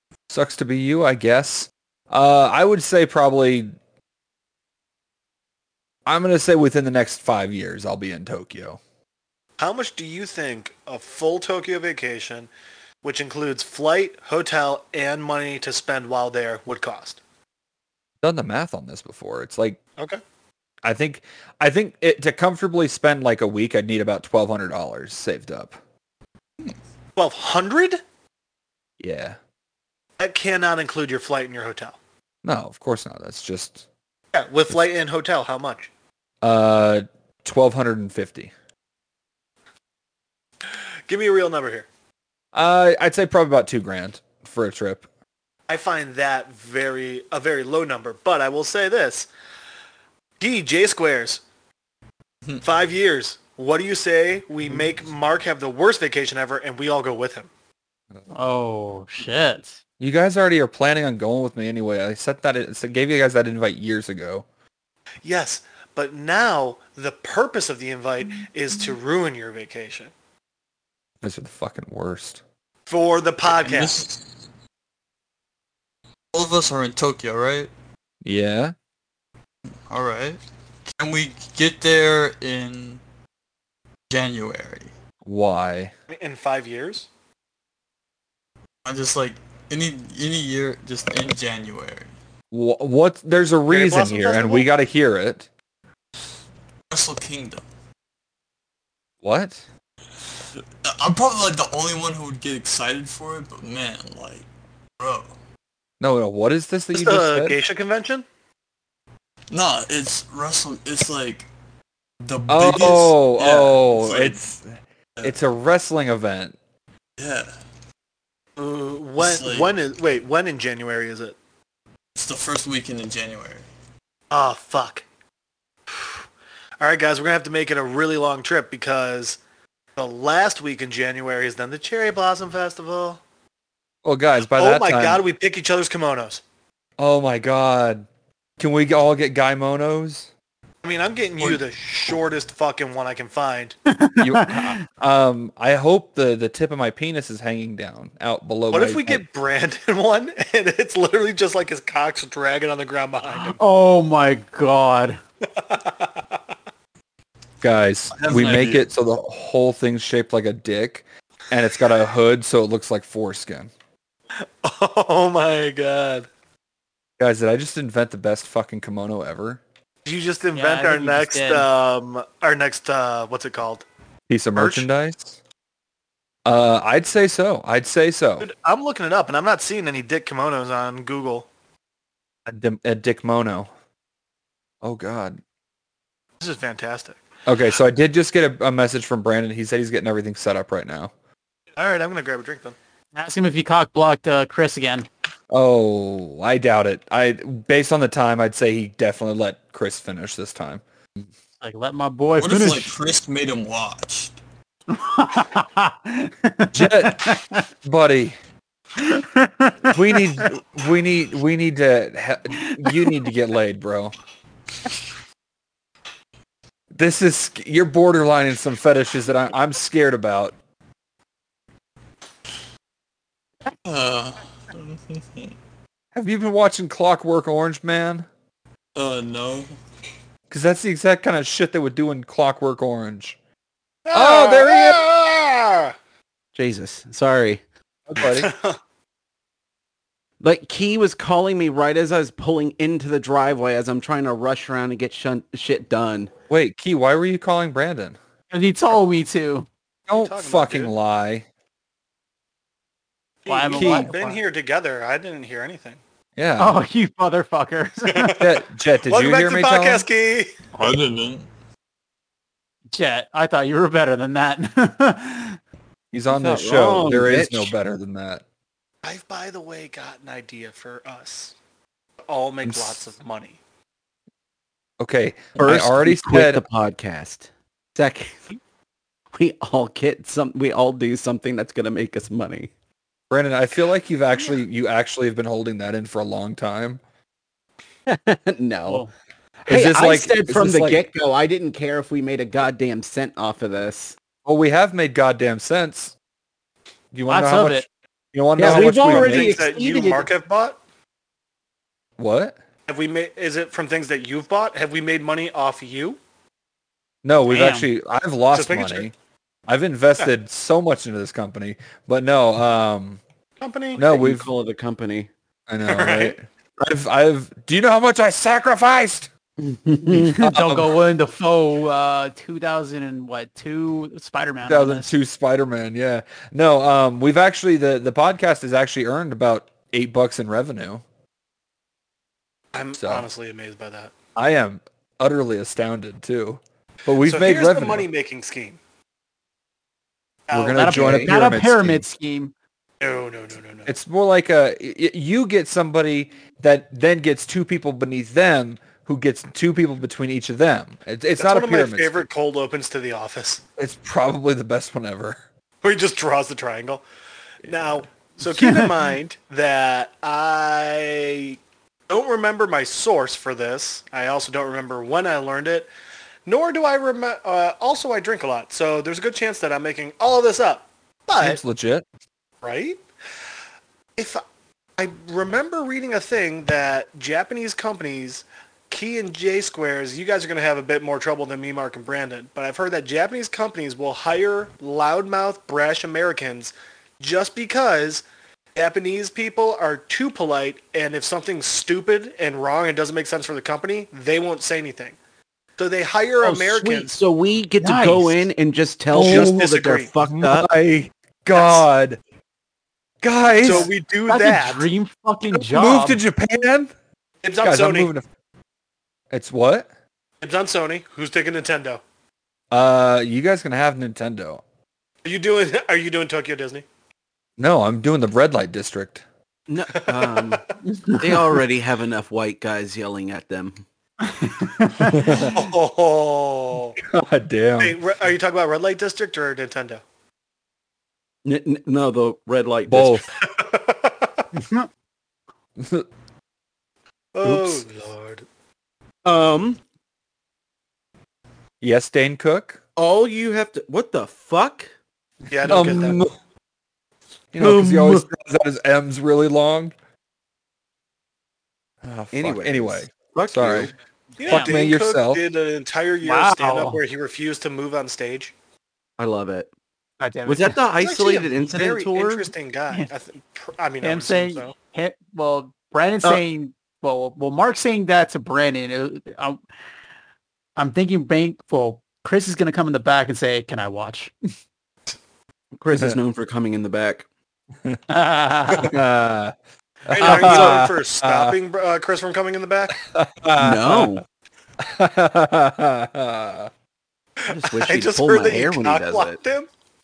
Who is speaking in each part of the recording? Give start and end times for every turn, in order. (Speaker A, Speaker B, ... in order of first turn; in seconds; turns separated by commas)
Speaker A: 0.3-3.7, Speaker A: 6.0-8.8, Speaker B: 9.6-12.5, Speaker B: 13.0-17.2, Speaker A: 18.2-19.8, Speaker A: 20.8-25.8, Speaker B: 27.1-28.0, Speaker A: 29.0-29.4, Speaker B: 30.2-32.0, Speaker A: 32.4-33.9, Speaker B: 34.3-35.9, Speaker A: 36.4-38.5, Speaker B: 41.1-41.9, Speaker A: 42.5-45.0, Speaker B: 45.7-49.3, Speaker B: 50.4-51.4, Speaker B: 52.6-57.5, Speaker C: 58.3-59.8, Speaker A: 60.0-64.4, Speaker B: 65.2-70.1, Speaker A: 71.2-72.4, Speaker B: 72.9-74.0, Speaker D: 73.4-74.2, Speaker D: 76.3-77.7, Speaker A: 78.2-78.7, Speaker D: 79.9-80.4, Speaker D: 81.0-83.0, Speaker D: 84.1-84.9, Speaker A: 85.2-85.9, Speaker B: 86.1-87.1, Speaker D: 88.8-92.1, Speaker A: 92.5-95.5, Speaker B: 93.7-94.7, Speaker D: 96.9-97.6, Speaker A: 99.2-99.6, Speaker D: 100.8-104.5, Speaker D: 105.0-105.3, Speaker A: 106.0-107.6, Speaker B: 106.9-108.2, Speaker D: 109.5-111.5, Speaker D: 112.2-114.4, Speaker A: 112.5-116.6, Speaker D: 117.2-117.5, Speaker B: 118.6-121.4, Speaker D: 119.2-119.7, Speaker D: 122.1-123.7, Speaker B: 124.3-125.0, Speaker B: 125.9-126.2, Speaker B: 126.8-129.4, Speaker B: 130.0-133.2, Speaker A: 134.0-135.2, Speaker B: 134.5-136.4, Speaker A: 137.0-138.1, Speaker A: 138.6-140.3, Speaker B: 140.8-143.8, Speaker C: 143.9-144.8, Speaker A: 144.2-149.2, Speaker B: 148.7-153.6, Speaker C: 153.4-155.2, Speaker B: 155.5-156.4, Speaker A: 157.6-163.7, Speaker D: 158.1-158.8, Speaker B: 164.6-166.3, Speaker A: 167.2-169.6, Speaker B: 170.0-173.8, Speaker C: 170.5-171.7, Speaker A: 174.3-175.4, Speaker B: 174.5-174.9, Speaker A: 176.4-178.5, Speaker B: 178.4-181.5, Speaker A: 182.5-183.7, Speaker A: 184.8-185.4, Speaker B: 186.4-187.2, Speaker A: 187.5-191.1, Speaker B: 191.8-192.8, Speaker C: 193.1-195.1, Speaker A: 195.5-200.8, Speaker C: 201.6-202.9, Speaker D: 202.4-204.3, Speaker C: 204.9-207.6, Speaker A: 206.7-208.4, Speaker C: 209.0-210.5, Speaker A: 209.9-214.1, Speaker C: 212.6-213.1, Speaker A: 216.9-220.5, Speaker D: 223.8-225.5, Speaker A: 226.1-228.3, Speaker D: 228.9-229.7, Speaker A: 230.5-233.4, Speaker B: 234.1-235.9, Speaker A: 234.1-235.0, Speaker E: 236.5-237.6, Speaker A: 238.1-238.5, Speaker B: 238.2-238.8, Speaker E: 240.4-246.3, Speaker A: 246.5-248.2, Speaker C: 248.5-249.7, Speaker A: 250.1-251.5, Speaker B: 250.1-250.9, Speaker B: 253.4-256.0, Speaker C: 253.5-254.4, Speaker A: 253.7-254.1, Speaker A: 256.4-256.8, Speaker C: 256.6-258.4, Speaker B: 258.1-258.5, Speaker A: 258.4-260.1, Speaker B: 259.1-260.5, Speaker D: 260.8-261.5, Speaker C: 262.9-265.6, Speaker A: 266.1-268.4, Speaker E: 266.3-267.7, Speaker B: 269.0-271.5, Speaker B: 272.2-273.6, Speaker A: 272.6-273.0, Speaker A: 275.0-276.6, Speaker E: 275.6-278.6, Speaker E: 279.3-282.7, Speaker A: 283.3-287.0, Speaker E: 288.1-289.0, Speaker E: 289.6-294.1, Speaker A: 289.7-291.0, Speaker A: 294.4-296.1, Speaker A: 297.1-299.6, Speaker C: 297.3-297.9, Speaker E: 298.6-300.3, Speaker B: 298.6-300.8, Speaker A: 302.2-302.6, Speaker B: 302.9-306.2, Speaker A: 307.2-309.1, Speaker C: 307.5-307.9, Speaker B: 308.5-309.1, Speaker A: 309.7-313.2, Speaker B: 313.6-314.0, Speaker A: 314.0-314.5, Speaker E: 314.0-315.3, Speaker A: 315.7-319.3, Speaker B: 315.9-316.4, Speaker E: 319.6-320.4, Speaker C: 320.1-325.1, Speaker A: 320.1-320.9, Speaker A: 324.6-331.0, Speaker B: 332.7-334.1, Speaker A: 333.0-333.3, Speaker A: 334.4-338.1, Speaker B: 337.2-338.8, Speaker B: 340.5-340.9, Speaker A: 340.5-342.0, Speaker C: 340.8-342.5, Speaker E: 340.9-341.3, Speaker B: 343.0-343.9, Speaker A: 343.9-352.2, Speaker B: 351.4-353.6, Speaker A: 353.8-355.4, Speaker B: 355.8-357.0, Speaker B: 357.6-365.9, Speaker C: 358.6-358.9, Speaker B: 366.5-371.6, Speaker A: 371.4-372.0, Speaker B: 372.6-373.0, Speaker B: 374.2-374.4, Speaker B: 375.0-388.2, Speaker B: 388.8-395.2, Speaker B: 395.8-397.2, Speaker E: 396.4-400.7, Speaker C: 397.8-398.5, Speaker A: 399.1-399.6, Speaker B: 399.2-400.1, Speaker A: 400.2-402.2, Speaker B: 401.5-401.8, Speaker A: 403.2-403.9, Speaker B: 403.6-404.9, Speaker C: 404.3-406.2, Speaker A: 405.5-406.9, Speaker B: 407.4-408.1, Speaker A: 407.6-408.2, Speaker A: 409.3-409.9, Speaker B: 410.4-412.0, Speaker A: 412.7-414.6, Speaker B: 415.2-416.8, Speaker A: 417.6-419.2, Speaker E: 419.7-423.8, Speaker B: 420.1-420.5, Speaker C: 420.9-421.4, Speaker C: 424.2-425.4, Speaker A: 425.1-425.5, Speaker B: 425.3-427.0, Speaker A: 427.0-428.0, Speaker B: 427.8-430.0, Speaker E: 431.4-433.2, Speaker A: 432.9-433.3, Speaker B: 433.4-434.4, Speaker C: 434.5-434.9, Speaker A: 435.8-436.1, Speaker B: 437.3-438.5, Speaker A: 437.4-437.8, Speaker E: 439.2-439.8, Speaker A: 441.8-442.8, Speaker E: 443.0-444.9, Speaker B: 445.5-446.2, Speaker A: 445.7-446.3, Speaker E: 445.7-446.1, Speaker A: 447.5-449.9, Speaker E: 447.6-448.2, Speaker A: 452.0-453.9, Speaker E: 452.3-453.9, Speaker B: 454.4-458.5, Speaker C: 454.5-454.8, Speaker A: 454.5-455.4, Speaker C: 456.2-457.0, Speaker E: 459.2-459.7, Speaker C: 460.2-460.8, Speaker E: 460.5-462.5, Speaker B: 461.0-464.7, Speaker C: 464.0-469.6, Speaker C: 470.8-474.3, Speaker E: 475.7-477.2, Speaker C: 478.1-478.9, Speaker A: 478.7-479.5, Speaker A: 480.1-481.6, Speaker B: 480.1-483.0, Speaker C: 480.3-480.8, Speaker A: 483.0-484.2, Speaker E: 483.6-484.2, Speaker A: 484.8-486.7, Speaker B: 487.5-489.7, Speaker E: 487.5-489.4